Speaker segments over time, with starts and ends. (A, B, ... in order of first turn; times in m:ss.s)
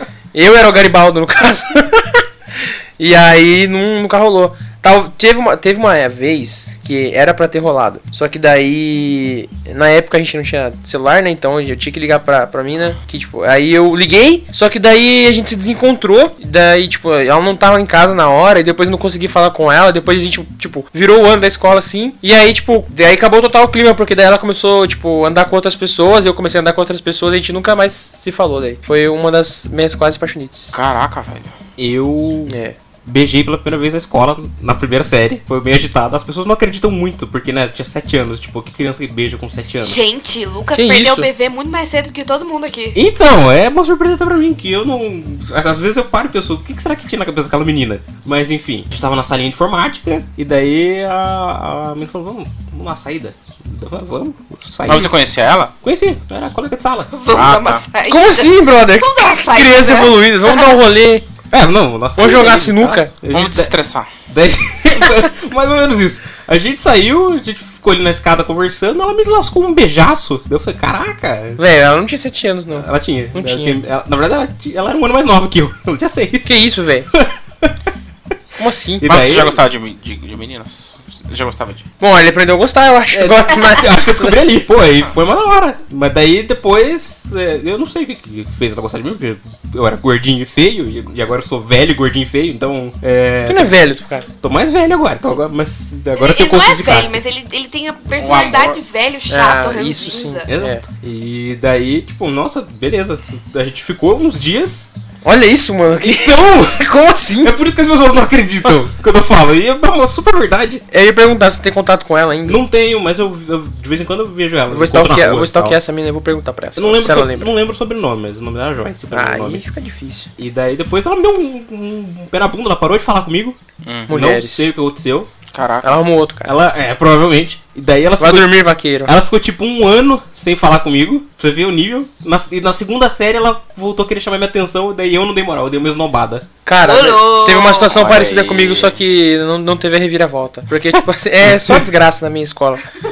0:00.3-0:30.8 A
0:30.7-0:31.5 B
0:31.8-0:40.0 C
0:32.5-0:32.8 A
0:39.8-0:43.0 D
0:40.7-0:41.3 A
0:42.9-0:55.1 C
0:54.9-0:55.7 B
0:55.8-0:57.1 C
0:57.1-1:00.8 D
0:57.3-0:57.9 B
0:58.1-1:01.2 A
1:01.5-1:03.7 C
1:02.2-1:03.1 A
1:03.3-1:04.1 B
1:04.3-1:11.6 C
1:11.6-1:13.8 A
1:12.7-1:16.6 C
1:16.4-1:17.1 A
1:17.1-1:17.9 C
1:18.6-1:19.1 A
1:19.0-1:19.6 C
1:19.0-1:21.9 B
1:22.0-1:24.4 A
1:23.1-1:33.8 C
1:33.4-1:34.3 A
1:34.4-1:37.2 C
1:36.1-1:40.5 D
1:38.2-1:38.8 B
1:39.3-1:40.8 A
1:40.5-1:44.9 C
1:45.2-1:47.5 A
1:46.0-1:46.8 C
1:47.4-1:50.8 C
1:50.9-1:52.6 A
1:52.4-1:55.8 C
1:54.7-1:57.5 A
1:56.8-1:59.6 C
1:59.1-2:00.3 A
2:00.4-2:03.6 C
2:03.8-2:04.1 B
2:04.1-2:04.7 A
2:04.1-2:05.3 C
2:05.5-2:06.0 B
2:05.8-2:06.6 A
2:06.4-2:16.5 C
2:08.2-2:09.1 A
2:16.6-2:22.8 A
2:16.8-2:17.9 D
2:17.9-2:19.0 B